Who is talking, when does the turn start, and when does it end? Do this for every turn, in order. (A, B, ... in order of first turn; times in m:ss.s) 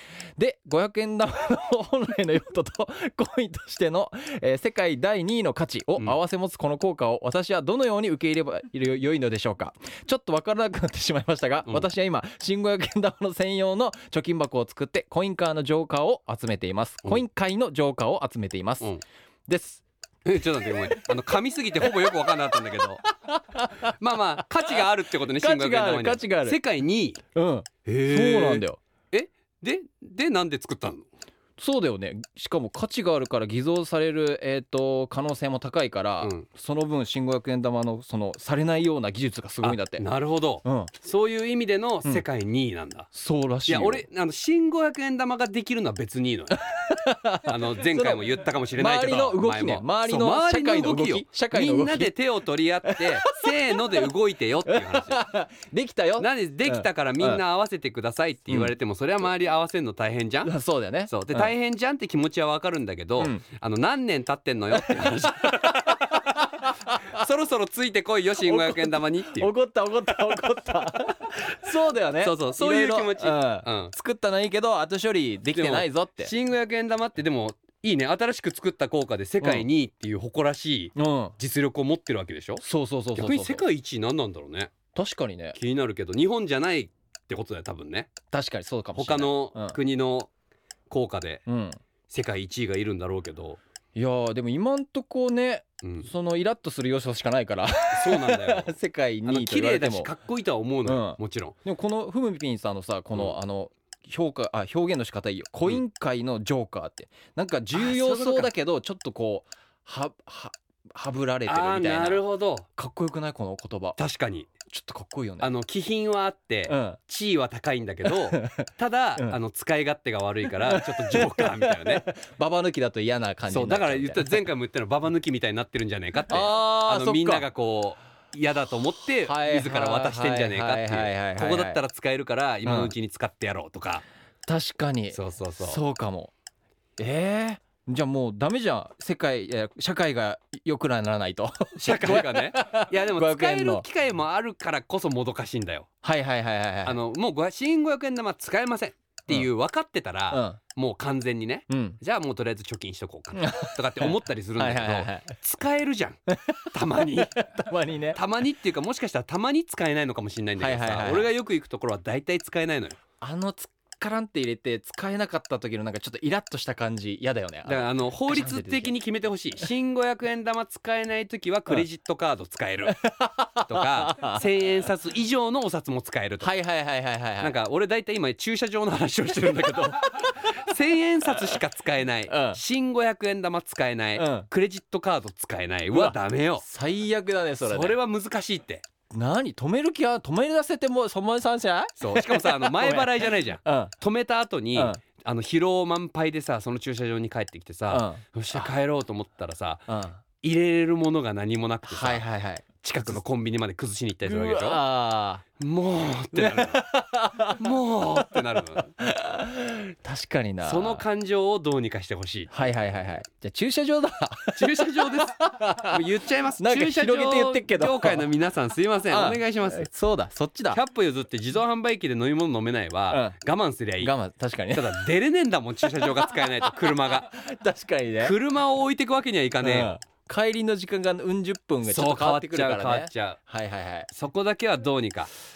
0:00.4-0:18.9 A
0:19.5-0:19.8 A
0:20.2-0:23.0 B
0:20.4-0:21.1 A
0:21.8-0:26.6 A
0:24.0-0:27.2 B
0:27.4-0:28.8 A
0:27.9-0:31.1 B
0:31.6-0:40.1 A
0:36.2-0:36.5 B
0:39.6-0:43.1 B
0:40.6-0:40.9 A
0:43.1-0:44.0 A
0:43.7-0:46.6 B
0:46.6-0:48.3 A
0:47.5-0:55.2 B
0:48.8-0:52.1 A
0:52.9-0:54.0 A
0:54.7-0:57.4 A
0:56.2-1:00.5 B
1:00.4-1:01.5 A
1:01.1-1:06.4 B
1:03.2-1:03.4 A
1:04.8-1:07.2 A
1:07.0-1:09.5 B
1:08.4-1:16.3 A
1:12.2-1:13.9 B
1:15.5-1:22.6 B
1:19.4-1:19.7 A
1:21.0-1:21.4 A
1:22.6-1:23.6 A
1:23.2-1:24.7 B
1:25.0-1:25.6 A
1:25.6-1:28.1 B
1:28.3-1:29.8 A
1:29.0-1:30.3 B
1:30.9-1:31.4 B
1:31.5-1:31.8 A
1:32.1-1:33.6 B
1:34.0-1:40.1 A
1:35.8-1:36.1 B
1:37.9-1:38.7 B
1:39.2-1:41.6 B
1:40.8-1:54.0 A
1:47.7-1:48.5 B
1:51.5-1:52.7 B
1:54.0-1:54.5 B
1:54.7-1:55.5 A
1:55.4-2:02.1 B
1:56.7-1:57.0 A
1:58.1-1:58.7 A
2:00.7-2:04.4 A
2:03.5-2:14.0 B
2:06.3-2:07.5 A
2:09.2-2:11.8 A
2:12.6-2:12.9 A
2:14.5-2:16.3 A
2:15.1-2:15.8 B
2:17.0-2:23.9 A
2:21.8-2:25.9 B
2:26.0-2:27.0 A
2:26.8-2:36.2 B
2:30.3-2:30.6 A
2:31.7-2:32.0 A
2:33.3-2:35.4 A
2:36.3-2:38.2 A
2:36.7-2:37.5 B
2:38.1-2:43.0 B
2:40.6-2:41.3 A
2:43.2-2:48.9 A
2:47.7-2:53.0 B
2:53.0-2:54.4 A
2:53.6-2:56.6 B
2:56.4-2:57.5 A
2:57.4-3:06.6 B
2:59.5-3:00.5 A
3:02.3-3:02.6 A
3:04.2-3:04.5 A
3:05.9-3:08.0 A
3:07.6-3:08.8 B
3:09.1-3:13.9 A
3:12.0-3:19.9 B
3:14.8-3:15.0 A
3:17.9-3:18.7 A
3:19.9-3:20.2 A
3:20.4-3:22.2 B
3:21.9-3:23.2 A
3:22.8-3:24.8 B
3:24.3-3:25.4 A
3:25.6-3:26.8 B
3:26.4-3:27.6 A
3:27.6-3:28.9 B
3:28.2-3:31.0 A
3:30.6-3:32.5 B
3:32.5-3:36.0 A
3:34.6-3:39.9 B
3:36.6-3:38.3 A
3:39.1-3:40.8 A
3:40.7-3:44.1 B
3:43.1-3:43.4 A
3:44.0-3:45.1 A
3:44.7-3:47.3 B
3:45.9-3:48.4 A
3:48.2-3:49.9 B
3:49.6-3:54.1 A
3:51.8-3:53.4 B
3:54.1-3:55.3 B